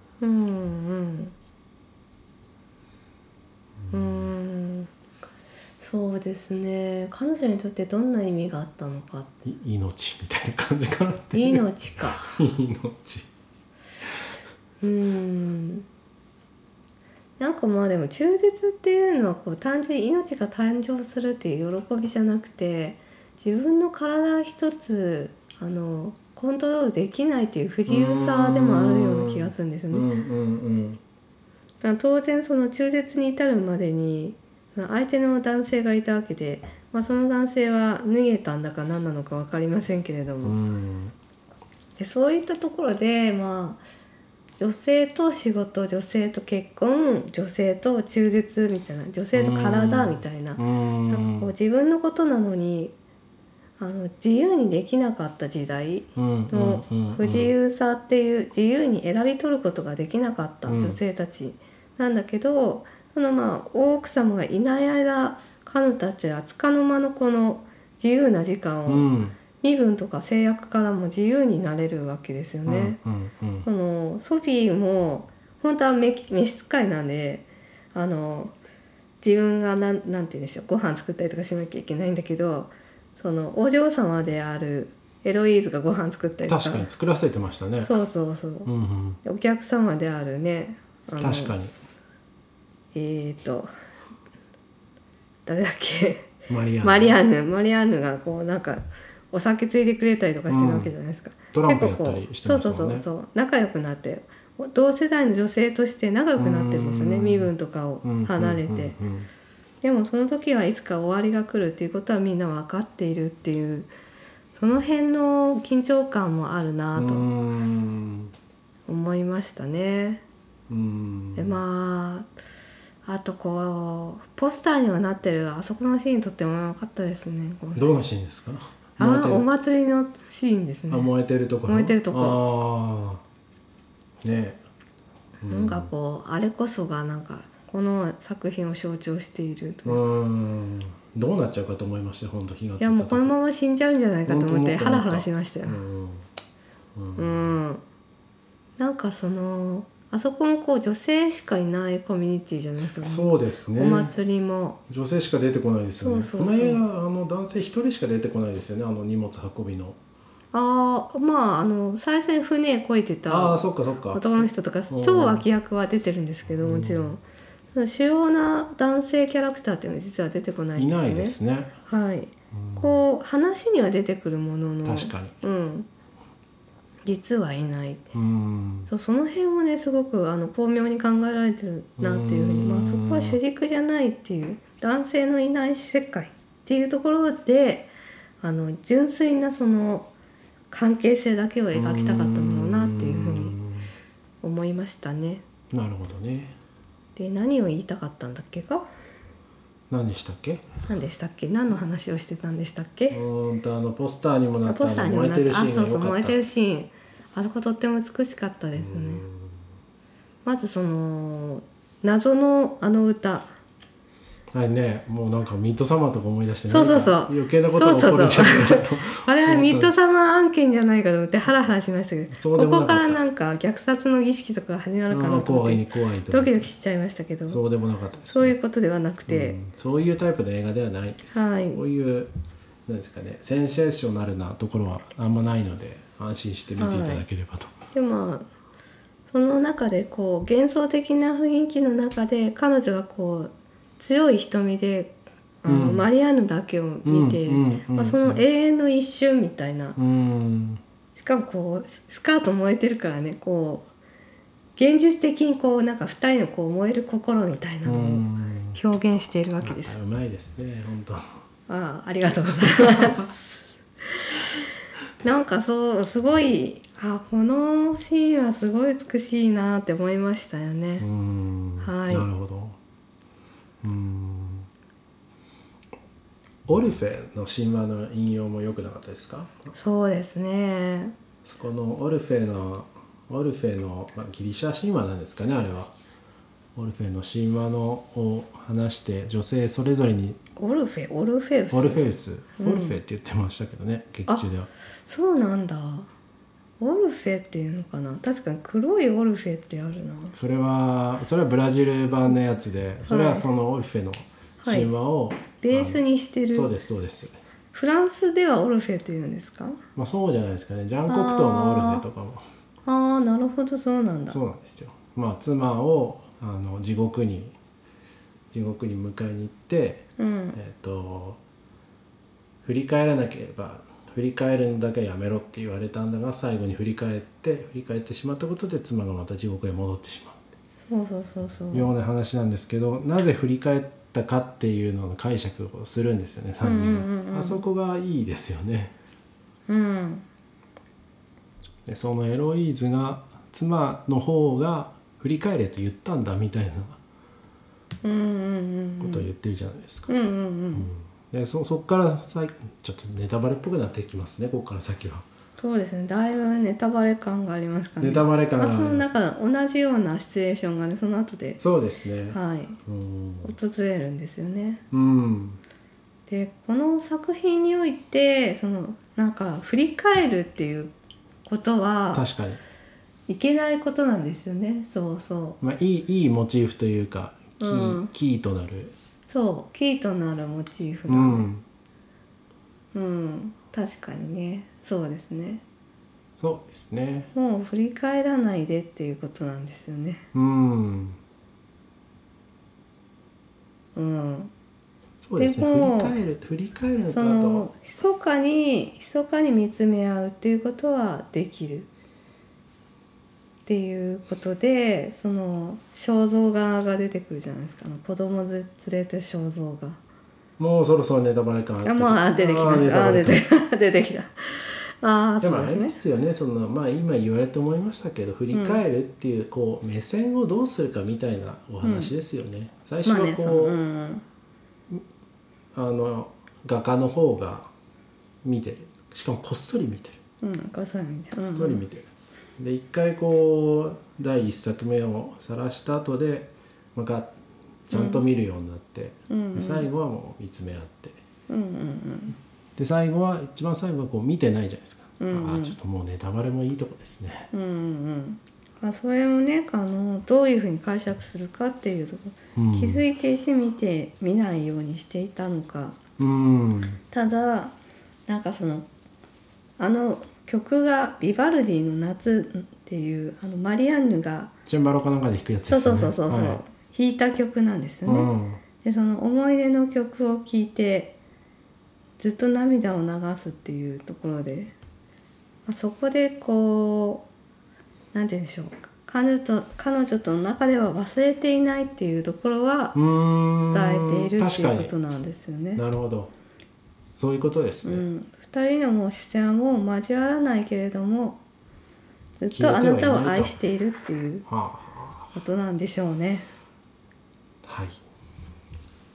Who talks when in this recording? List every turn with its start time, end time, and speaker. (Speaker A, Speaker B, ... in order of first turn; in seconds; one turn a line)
Speaker A: 0.2-1.4
Speaker B: 3.9-4.3
Speaker A: 3.9-4.9
Speaker A: 5.8-9.3
Speaker B: 9.4-13.3
Speaker A: 11.3-12.4
Speaker A: 14.8-15.9
Speaker A: 17.4-30.1
Speaker B: 27.9-31.0
Speaker A: 31.8-40.6
Speaker B: 40.4-41.1
Speaker A: 42.0-43.8
Speaker A: 44.6-53.0
Speaker B: 49.3-51.5
Speaker A: 53.8-69.1
Speaker B: 56.2-57.5
Speaker B: 60.7-61.0
Speaker B: 68.9-69.4
Speaker A: 69.6-73.0
Speaker B: 72.7-73.7
Speaker A: 73.7-78.5
Speaker A: 79.2-86.9
Speaker B: 86.5-87.9
Speaker A: 87.8-88.7
Speaker B: 88.7-89.2
Speaker A: 89.2-91.5
Speaker B: 91.2-91.7
Speaker A: 92.9-93.7
Speaker A: 95.5-109.0
Speaker B: 96.5-97.2
Speaker B: 100.5-100.9
Speaker B: 101.5-103.1
Speaker B: 106.4-107.5
Speaker B: 108.0-109.3
Speaker A: 109.8-113.9
Speaker A: 114.5-117.2
Speaker B: 117.0-118.3
Speaker A: 118.9-120.2
Speaker B: 120.7-121.6
Speaker A: 121.4-122.3
Speaker A: 123.0-127.9
Speaker B: 127.8-129.5
Speaker A: 129.0-131.1
Speaker B: 130.9-133.2
Speaker A: 131.7-132.4
Speaker B: 134.2-134.6
Speaker B: 135.4-135.9
Speaker A: 135.5-140.0
Speaker B: 139.8-143.3
Speaker A: 142.8-145.8
Speaker B: 144.3-146.3
Speaker B: 146.9-147.6
Speaker A: 147.2-147.8
Speaker A: 148.8-154.8
Speaker B: 153.1-154.1
Speaker B: 154.9-160.0
Speaker A: 156.0-156.8
Speaker A: 160.5-167.2
Speaker B: 163.3-165.4
Speaker B: 166.5-167.2
Speaker A: 167.7-171.4
Speaker B: 170.8-171.7
Speaker A: 171.9-175.9
Speaker B: 172.5-173.0
Speaker B: 174.8-175.4
Speaker A: 177.1-178.0
Speaker B: 178.1-178.9
Speaker A: 178.9-187.9
Speaker B: 182.0-183.4
Speaker A: 188.4-190.1
Speaker A: 190.7-193.6
Speaker B: 191.7-193.9
Speaker A: 194.4-195.4
Speaker B: 195.7-196.6
Speaker A: 197.2-198.9
Speaker B: 199.9-200.7
Speaker A: 200.9-203.2
Speaker B: 203.1-206.4
Speaker A: 204.7-209.2
Speaker B: 208.8-209.6
Speaker A: 210.4-213.5
Speaker B: 214.5-219.9
Speaker A: 216.7-227.6
Speaker B: 222.3-223.2
Speaker B: 225.1-226.7
Speaker B: 227.5-228.6
Speaker A: 228.3-229.6
Speaker B: 229.3-232.3
Speaker A: 231.3-231.8
Speaker B: 232.9-237.8
Speaker A: 236.8-237.2
Speaker A: 237.9-238.5
Speaker A: 239.3-250.0
Speaker B: 245.7-246.1
Speaker B: 247.1-248.4
Speaker B: 250.0-250.8
Speaker A: 251.2-253.9
Speaker A: 254.8-258.2
Speaker B: 257.9-258.8
Speaker A: 258.8-260.0
Speaker B: 259.6-261.3
Speaker A: 261.7-263.4
Speaker B: 262.6-263.3
Speaker A: 265.2-271.1
Speaker B: 271.0-272.8
Speaker A: 271.8-272.3
Speaker B: 273.8-274.7
Speaker B: 276.7-279.7
Speaker A: 279.7-281.1
Speaker B: 281.4-285.9
Speaker B: 286.8-290.4
Speaker A: 290.6-292.0
Speaker B: 291.7-294.7
Speaker A: 292.6-293.0
Speaker A: 295.1-296.1
Speaker A: 296.8-300.3
Speaker B: 300.3-306.0
Speaker A: 303.1-303.5
Speaker A: 304.6-304.9
Speaker A: 305.6-306.7
Speaker B: 306.5-307.3
Speaker A: 307.7-309.8
Speaker B: 310.0-312.4
Speaker A: 311.1-312.0
Speaker A: 312.9-314.4
Speaker B: 314.3-317.6
Speaker B: 318.5-321.4
Speaker A: 320.2-320.6
Speaker B: 322.6-330.4
Speaker A: 330.9-331.9
Speaker B: 331.7-338.9
Speaker A: 336.6-337.6
Speaker A: 339.7-340.3
Speaker B: 341.9-347.0
Speaker A: 348.0-349.3
Speaker B: 349.0-350.1
Speaker A: 350.1-350.9
Speaker B: 350.7-355.2
Speaker A: 355.6-361.6
Speaker B: 358.0-359.1
Speaker B: 361.6-363.6
Speaker A: 362.3-362.8
Speaker A: 363.4-364.8
Speaker B: 364.9-365.6
Speaker A: 366.3-370.9
Speaker A: 371.4-372.2
Speaker B: 372.1-372.6
Speaker A: 373.3-375.6
Speaker B: 375.6-378.9
Speaker A: 377.6-378.1
Speaker A: 379.3-381.5
Speaker B: 381.1-381.6
Speaker A: 382.9-385.6
Speaker B: 386.4-387.3
Speaker A: 387.3-390.2
Speaker B: 390.3-391.2
Speaker A: 393.9-394.5
Speaker B: 395.2-397.7
Speaker A: 395.4-396.2
Speaker A: 397.1-401.9
Speaker A: 403.7-410.0
Speaker B: 410.6-413.4
Speaker A: 411.8-416.0
Speaker B: 415.4-423.8
Speaker A: 418.5-418.8
Speaker A: 421.8-422.1
Speaker A: 423.1-424.2
Speaker B: 425.7-427.7
Speaker B: 428.4-430.2
Speaker A: 430.4-431.8
Speaker B: 431.4-437.3
Speaker B: 437.9-441.2
Speaker A: 437.9-438.2
Speaker A: 439.3-439.9
Speaker A: 441.5-442.4
Speaker B: 442.8-447.5
Speaker A: 445.2-445.8
Speaker A: 447.5-456.0
Speaker B: 452.6-453.0
Speaker B: 456.2-457.0
Speaker A: 457.1-457.8
Speaker A: 458.3-458.9
Speaker A: 459.8-464.5
Speaker B: 464.7-466.6
Speaker A: 465.7-468.3
Speaker B: 468.1-468.6
Speaker A: 468.8-471.2
Speaker A: 472.2-474.7
Speaker A: 475.7-477.3
Speaker A: 478.1-483.0
Speaker B: 482.9-484.9
Speaker A: 483.6-485.8
Speaker B: 485.8-486.3
Speaker B: 487.2-488.1
Speaker A: 487.8-491.4
Speaker A: 492.4-494.5
Speaker B: 492.5-493.6
Speaker B: 494.5-495.3
Speaker A: 495.3-496.5
Speaker B: 497.7-498.0